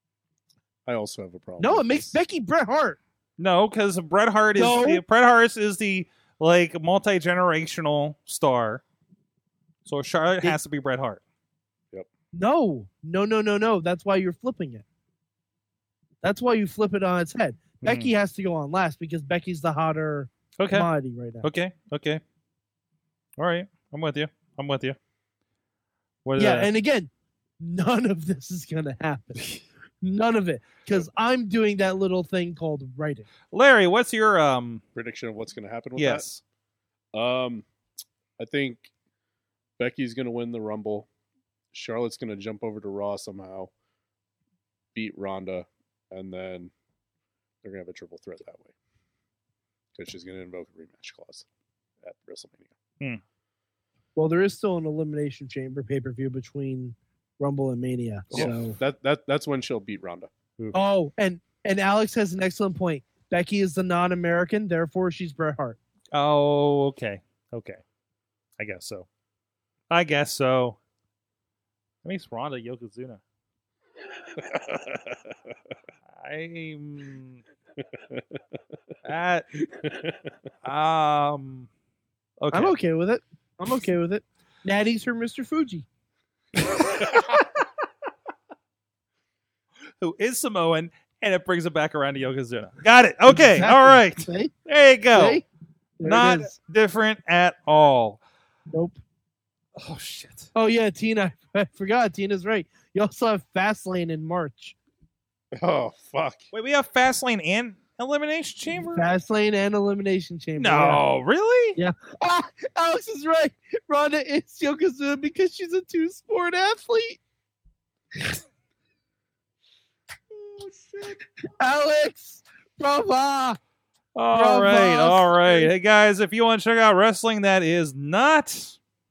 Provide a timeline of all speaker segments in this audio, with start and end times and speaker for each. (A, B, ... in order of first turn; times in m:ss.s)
0:00.9-0:02.2 A
0:01.6-0:03.0 B
0:03.4-0:08.8 C
0:04.6-0:05.0 B
0:09.9-0:11.2 C
0:12.3-0:14.8 B
0:16.2-0:21.5 B
0:17.8-0:18.1 C
0:20.6-0:20.9 C
0:21.4-0:22.2 C
0:23.4-0:25.0 C
0:26.2-0:26.7 C
0:26.4-0:33.3 B
0:33.5-0:34.8 C
0:35.0-0:36.3 A
0:36.0-0:36.4 C
0:37.1-0:37.7 A
0:38.4-0:38.9 A
0:39.8-0:41.1 A
0:41.7-0:43.7 A
0:45.0-0:46.7 A
0:47.6-0:48.7 A
0:50.0-0:51.5 A
0:52.0-0:52.7 A
0:54.2-0:58.8 B
0:58.3-1:00.3 A
1:00.7-1:05.8 B
1:06.1-1:07.8 C
1:08.6-1:09.1 C
1:09.9-1:10.8 C
1:12.0-1:13.2 C
1:14.3-1:15.3 A
1:16.1-1:17.4 C
1:17.9-1:18.4 A
1:19.0-1:19.5 C
1:19.8-1:20.2 A
1:20.6-1:21.7 C
1:22.4-1:22.8 C
1:22.5-1:25.9 B
1:26.7-1:27.1 C
1:30.0-1:35.4 C
1:33.3-1:34.5 B
1:35.1-1:35.4 B
1:36.0-1:36.5 B
1:36.0-1:38.2 C
1:38.7-1:39.0 B
1:39.8-1:40.5 C
1:40.6-1:44.8 B
1:45.5-1:46.5 A
1:46.5-1:49.1 C
1:48.9-1:51.0 B
1:50.6-1:51.8 C
1:51.8-1:57.2 B
2:01.4-2:03.6 B
2:04.2-2:08.8 C
2:04.3-2:05.7 B